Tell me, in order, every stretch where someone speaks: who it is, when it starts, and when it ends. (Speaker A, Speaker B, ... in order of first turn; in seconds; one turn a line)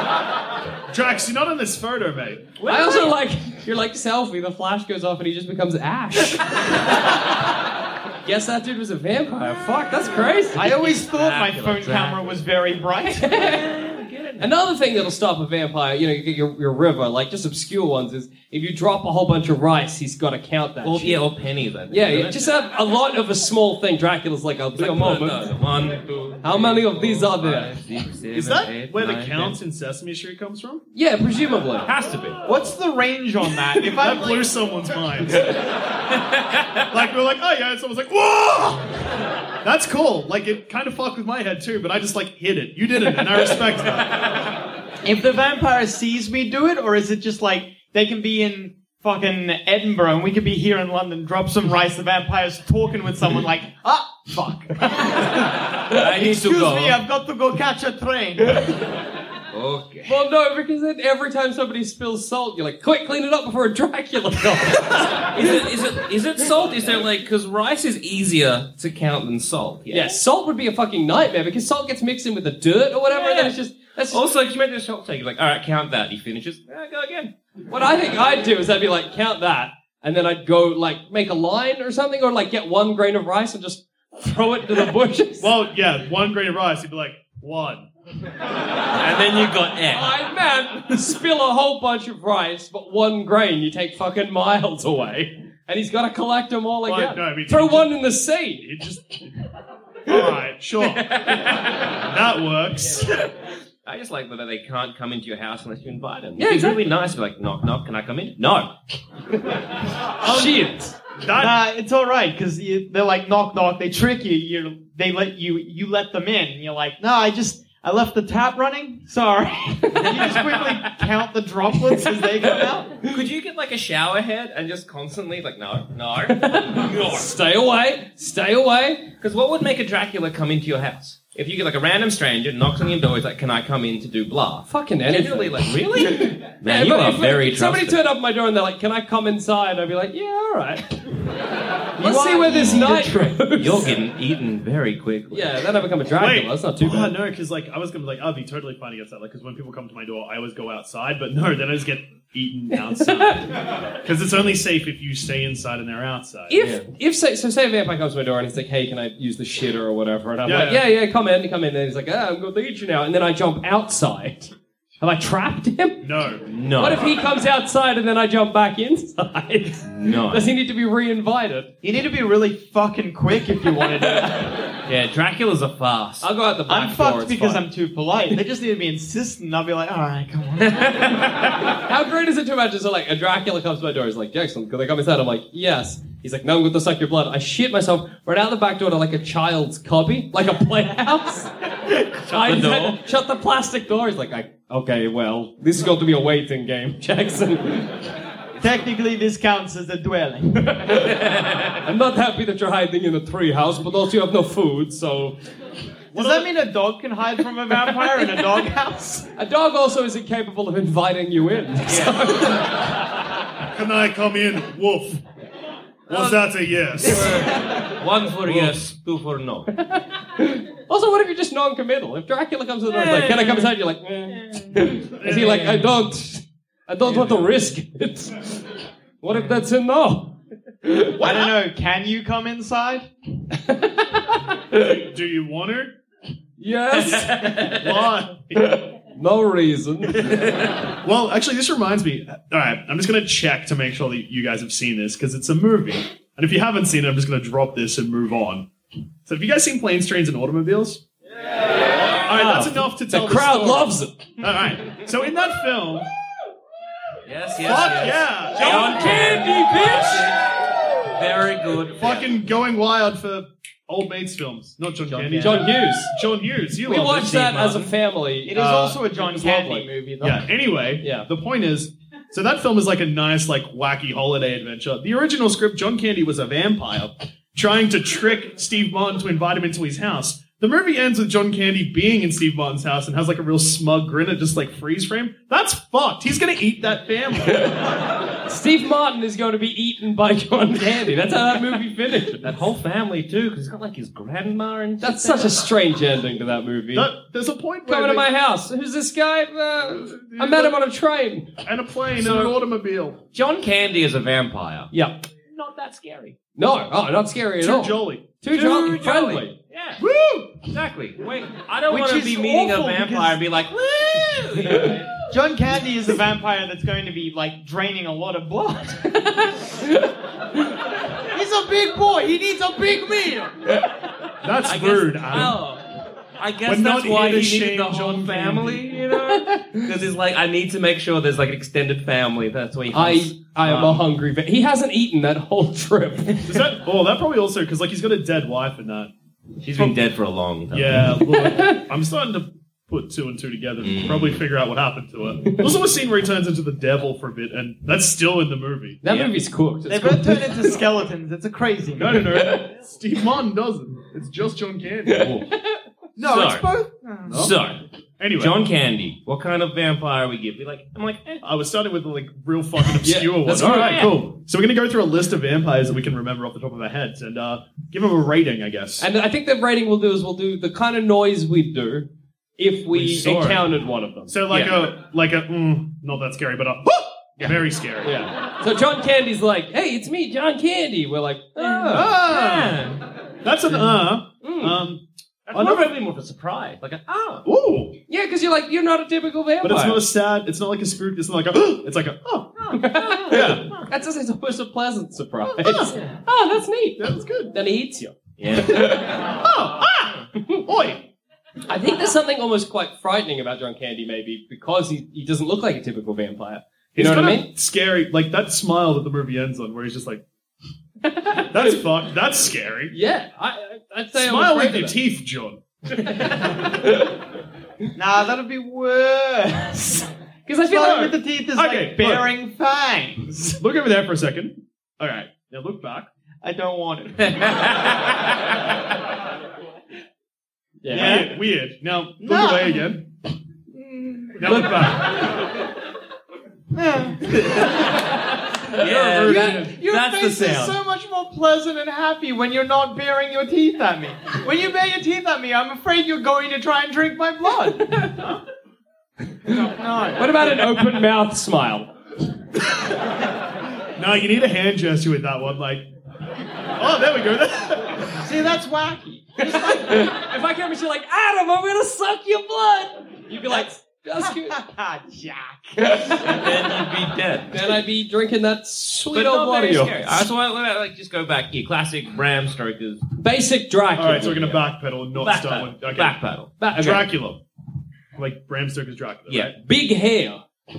Speaker A: 0.9-2.5
Speaker B: 2.6-3.1
Speaker C: 2.6-6.4
Speaker C: 8.2-10.7
Speaker D: 10.6-13.3
Speaker B: 10.6-12.3
Speaker C: 13.2-13.7
Speaker B: 13.3-14.5
Speaker C: 14.4-21.2
Speaker B: 20.8-22.4
Speaker C: 21.9-25.6
Speaker B: 24.8-29.6
Speaker C: 26.4-27.7
Speaker A: 28.3-30.8
Speaker C: 30.9-31.9
Speaker B: 31.9-32.4
Speaker D: 32.5-34.5
Speaker A: 33.8-35.6
Speaker B: 36.3-36.6
Speaker A: 36.9-39.0
Speaker A: 39.6-44.2
Speaker D: 45.0-58.8
Speaker B: 55.8-57.0
Speaker B: 59.5-60.1
Speaker C: 60.1-65.3
Speaker B: 65.3-70.2
Speaker C: 69.9-74.2
Speaker B: 73.1-73.5
Speaker B: 74.1-77.3
Speaker C: 77.7-85.5
Speaker A: 85.4-87.9
Speaker B: 89.0-90.1
Speaker C: 89.9-98.7
Speaker A: 96.8-98.0
Speaker A: 98.6-99.2
Speaker A: 100.1-101.3
Speaker B: 101.2-101.8
Speaker A: 101.9-103.1
Speaker B: 103.8-108.7
Speaker C: 106.4-106.8
Speaker C: 110.2-111.0
Speaker A: 110.2-110.7
Speaker A: 111.2-111.6
Speaker D: 111.4-123.0
Speaker C: 119.9-120.6
Speaker C: 121.9-122.2
Speaker B: 123.1-127.3
Speaker C: 126.3-129.1
Speaker B: 129.2-138.0
Speaker C: 134.7-141.1
Speaker C: 142.0-143.9
Speaker D: 142.0-143.3
Speaker B: 142.4-145.5
Speaker C: 145.3-147.2
Speaker A: 146.1-156.8
Speaker C: 152.8-153.4
Speaker C: 156.5-166.1
Speaker A: 160.4-160.9
Speaker A: 166.0-166.5
Speaker B: 166.5-167.1
Speaker C: 166.8-171.7
Speaker B: 169.8-170.5
Speaker D: 171.8-174.6
Speaker B: 174.9-176.3
Speaker C: 176.2-177.6
Speaker D: 176.7-181.3
Speaker B: 180.6-181.7
Speaker C: 181.7-197.9
Speaker B: 191.9-193.0
Speaker D: 198.6-200.9
Speaker B: 200.9-201.8
Speaker C: 201.8-205.4
Speaker D: 206.1-209.3
Speaker A: 206.1-206.5
Speaker C: 209.4-212.8
Speaker B: 211.9-212.6
Speaker A: 213.7-215.2
Speaker A: 216.1-217.6
Speaker B: 216.1-219.7
Speaker C: 217.3-217.8
Speaker C: 219.8-228.6
Speaker B: 222.9-223.8
Speaker B: 224.3-225.6
Speaker A: 225.2-225.9
Speaker B: 227.0-227.5
Speaker C: 229.2-231.2
Speaker B: 229.3-229.6
Speaker D: 231.2-233.1
Speaker C: 233.6-234.8
Speaker A: 234.8-235.9
Speaker C: 236.6-237.8
Speaker B: 237.0-238.0
Speaker A: 237.7-238.8
Speaker C: 239.0-240.4
Speaker B: 240.3-240.7
Speaker A: 241.0-248.7
Speaker A: 249.3-251.0
Speaker A: 252.1-256.1
Speaker C: 252.3-254.1
Speaker B: 257.3-260.4
Speaker A: 257.6-259.4
Speaker C: 258.6-260.4
Speaker B: 261.1-262.4
Speaker A: 262.0-267.5
Speaker B: 265.1-265.7
Speaker C: 265.4-266.1
Speaker C: 266.9-269.9
Speaker B: 267.2-267.9
Speaker D: 268.4-270.5
Speaker A: 270.2-287.8
Speaker C: 271.0-271.3
Speaker C: 288.4-292.5
Speaker B: 292.4-295.6
Speaker C: 295.0-297.1
Speaker A: 296.9-298.3
Speaker C: 297.9-301.6
Speaker A: 299.9-300.8
Speaker A: 301.6-303.2
Speaker B: 302.2-302.5
Speaker B: 303.3-304.9
Speaker C: 304.9-305.2
Speaker B: 305.5-306.4
Speaker C: 306.6-309.5
Speaker A: 307.6-308.3
Speaker B: 308.5-310.0
Speaker A: 310.0-310.6
Speaker B: 310.7-315.1
Speaker D: 311.9-313.4
Speaker D: 315.3-319.2
Speaker C: 319.2-319.9
Speaker D: 321.3-323.6
Speaker A: 324.4-325.6
Speaker B: 324.6-325.8
Speaker B: 326.4-334.0
Speaker A: 326.6-328.8
Speaker C: 329.4-329.8
Speaker C: 332.9-336.5
Speaker A: 336.5-339.1
Speaker B: 339.6-341.2
Speaker A: 340.7-349.0
Speaker C: 341.3-341.8
Speaker B: 343.8-344.4
Speaker C: 349.0-350.5
Speaker B: 349.1-349.3
Speaker D: 349.9-352.4
Speaker A: 352.0-355.5
Speaker D: 356.2-357.5
Speaker B: 356.2-356.7
Speaker A: 357.3-357.6
Speaker B: 357.3-357.8
Speaker A: 358.2-358.6
Speaker B: 358.4-361.4
Speaker A: 361.4-369.1
Speaker C: 363.0-364.1
Speaker B: 363.6-364.2
Speaker C: 369.0-374.4
Speaker A: 372.9-373.7
Speaker A: 374.3-378.2
Speaker B: 374.5-374.8
Speaker C: 378.0-382.1
Speaker B: 381.6-383.0
Speaker A: 381.9-382.9
Speaker A: 383.4-385.9
Speaker C: 384.4-384.8
Speaker B: 385.5-387.4
Speaker A: 387.4-388.0
Speaker C: 388.1-390.0
Speaker A: 389.6-392.5
Speaker B: 392.6-393.5
Speaker C: 392.7-398.1
Speaker A: 393.3-393.8
Speaker A: 395.6-396.0
Speaker A: 397.0-397.5
Speaker B: 398.4-399.2
Speaker C: 398.7-399.1
Speaker A: 399.3-401.1
Speaker C: 401.7-407.5
Speaker A: 406.9-410.2
Speaker C: 411.0-411.7
Speaker A: 411.5-412.9
Speaker C: 412.9-415.0
Speaker A: 414.1-415.6
Speaker C: 416.0-416.4
Speaker D: 417.9-420.1
Speaker C: 420.5-421.1
Speaker D: 420.7-423.6
Speaker A: 420.8-422.3
Speaker A: 423.6-426.1
Speaker D: 426.4-427.8
Speaker B: 427.3-427.7
Speaker C: 430.8-431.3
Speaker A: 430.9-433.1
Speaker D: 430.9-431.4
Speaker D: 432.2-433.0
Speaker D: 433.7-434.7
Speaker A: 434.4-435.3
Speaker C: 434.5-434.8
Speaker D: 436.7-437.8
Speaker B: 438.8-440.8
Speaker A: 438.8-439.7
Speaker D: 439.2-448.1
Speaker C: 439.3-439.7
Speaker C: 447.9-448.2
Speaker D: 449.5-450.6
Speaker C: 450.2-451.9
Speaker A: 454.0-455.9
Speaker A: 456.8-458.2
Speaker D: 458.1-460.1
Speaker C: 459.4-464.6
Speaker D: 464.2-466.2
Speaker C: 465.8-466.4
Speaker B: 466.2-467.7
Speaker C: 467.5-470.1
Speaker B: 469.1-473.1
Speaker C: 473.2-474.6
Speaker A: 474.0-476.1
Speaker B: 475.1-476.5
Speaker C: 476.6-477.1
Speaker A: 476.7-477.4
Speaker A: 478.1-479.5
Speaker C: 479.6-480.4